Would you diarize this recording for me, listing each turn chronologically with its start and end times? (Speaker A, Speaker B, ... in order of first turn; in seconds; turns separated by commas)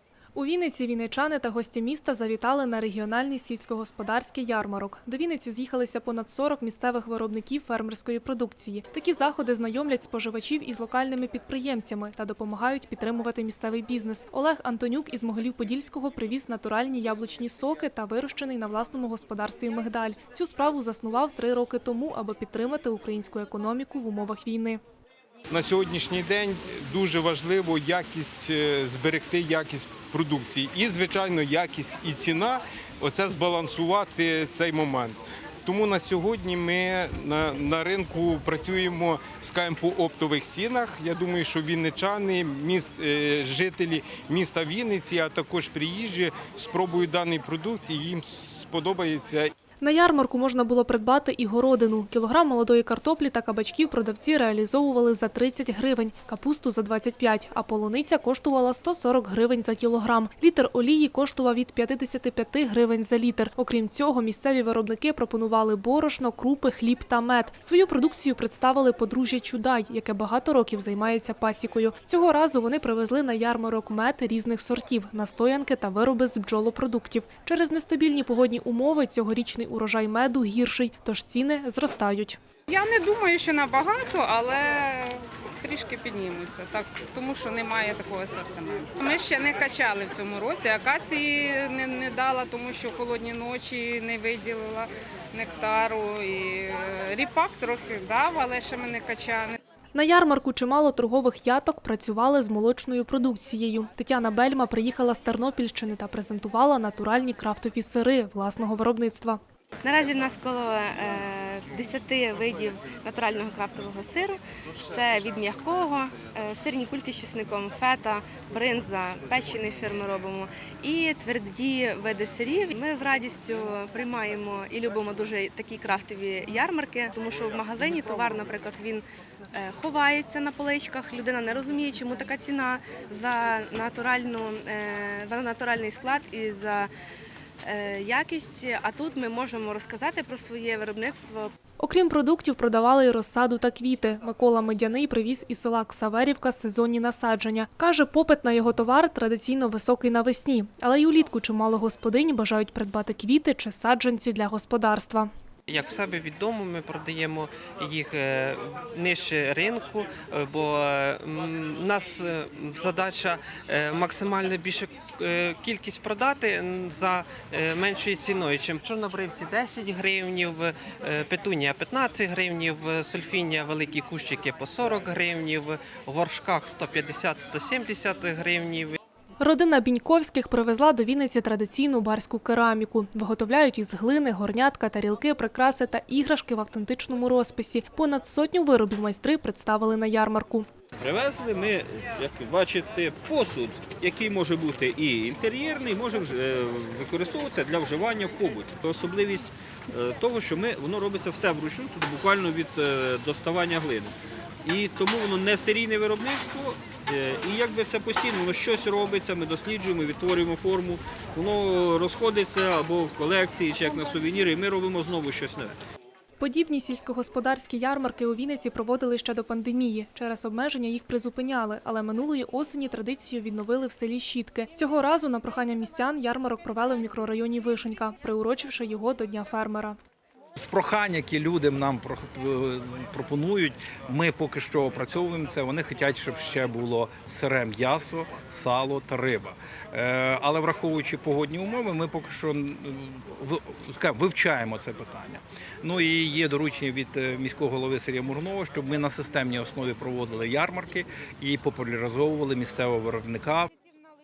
Speaker A: 0.3-24.8, Speaker B: 25.5-49.5, Speaker A: 49.8-82.4, Speaker C: 82.7-99.6, Speaker A: 99.9-109.4, Speaker D: 109.8-136.9, Speaker D: 137.6-141.5, Speaker A: 141.8-155.3, Speaker E: 155.7-179.0, Speaker A: 179.4-190.7, Speaker F: 191.0-215.8, Speaker A: 216.4-230.0, Speaker G: 230.6-253.7